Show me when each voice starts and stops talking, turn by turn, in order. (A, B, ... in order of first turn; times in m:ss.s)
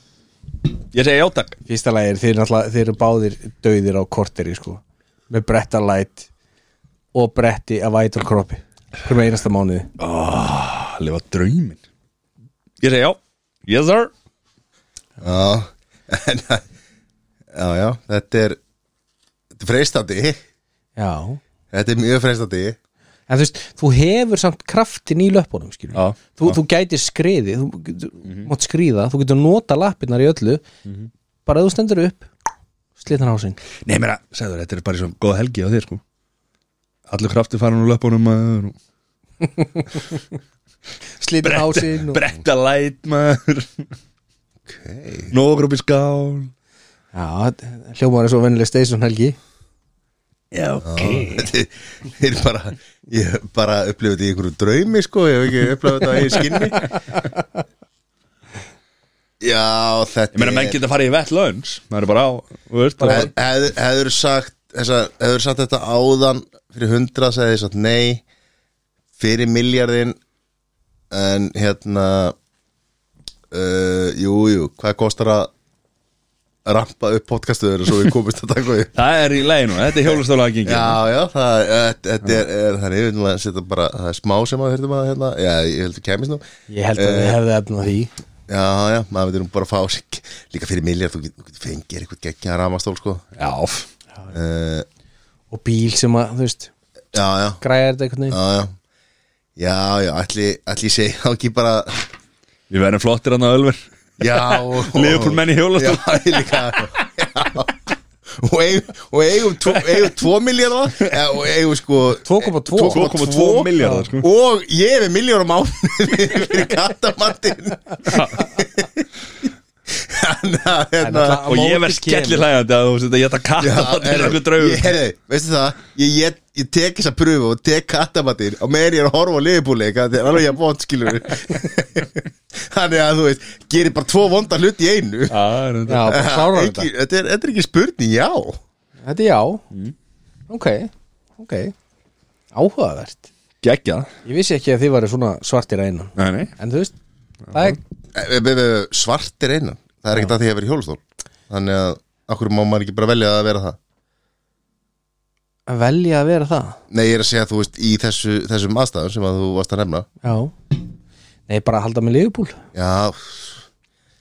0:00.9-0:01.6 A
0:01.7-0:06.3 B
0:07.1-0:09.9 B
0:10.0-0:11.8 A
0:12.8-0:14.1 A
0:15.2-0:16.6 C
0:17.5-0:18.6 C
0:19.6-0:20.4 C
0:21.0-0:21.4 B
0:21.7-0:22.8 C
0:23.3-0:30.6 B
0:25.9-0:26.6 A
0:28.2-0:28.5 A
0:31.4-0:32.3 B
0:33.0-0:33.6 B
0:33.8-0:36.0 A
0:37.1-0:38.7 A
0:41.2-0:42.2 B
0:41.4-0:43.8 A
0:44.6-0:45.3 C
0:45.3-0:46.5 A
0:47.1-0:49.4 B
0:50.5-0:51.5 A
0:50.8-0:56.8 C
0:56.7-0:57.2 B
0:59.4-1:00.8 C
1:00.3-1:03.3 A
1:03.0-1:03.3 B
1:03.1-1:08.2 C
1:09.2-1:10.2 C
1:11.1-1:12.3 C
1:13.5-1:15.5 C
1:16.6-1:18.9 C
1:18.9-1:21.0 A
1:20.1-1:26.4 C
1:26.7-1:28.1 B
1:27.0-1:27.4 C
1:28.5-1:33.2 C
1:33.4-1:33.9 A
1:34.3-1:34.8 C
1:35.5-1:36.7 B
1:37.1-1:37.6 C
1:37.6-1:38.4 B
1:38.3-1:38.7 C
1:39.6-1:42.0 C
1:42.7-1:46.9 A
1:44.2-1:47.7 C
1:48.4-1:59.0 C
1:52.2-1:53.1 B
1:52.9-1:54.3 A
1:53.8-1:54.0 B
1:58.1-1:58.4 A
1:59.9-2:01.4 C
2:01.0-2:02.4 B
2:01.4-2:04.9 A
2:03.6-2:15.4 C
2:15.3-2:16.2 A
2:15.9-2:16.9 B
2:16.1-2:18.6 C
2:19.0-2:19.6 B
2:20.5-2:21.7 B
2:22.5-2:23.3 B
2:23.6-2:24.1 A
2:24.2-2:26.9 B
2:26.2-2:26.5 A
2:27.5-2:27.8 B
2:28.1-2:33.8 C
2:35.7-2:36.8 B
2:36.9-2:40.1 C
2:40.2-2:40.5 B
2:41.5-2:42.6 B
2:42.7-2:43.6 C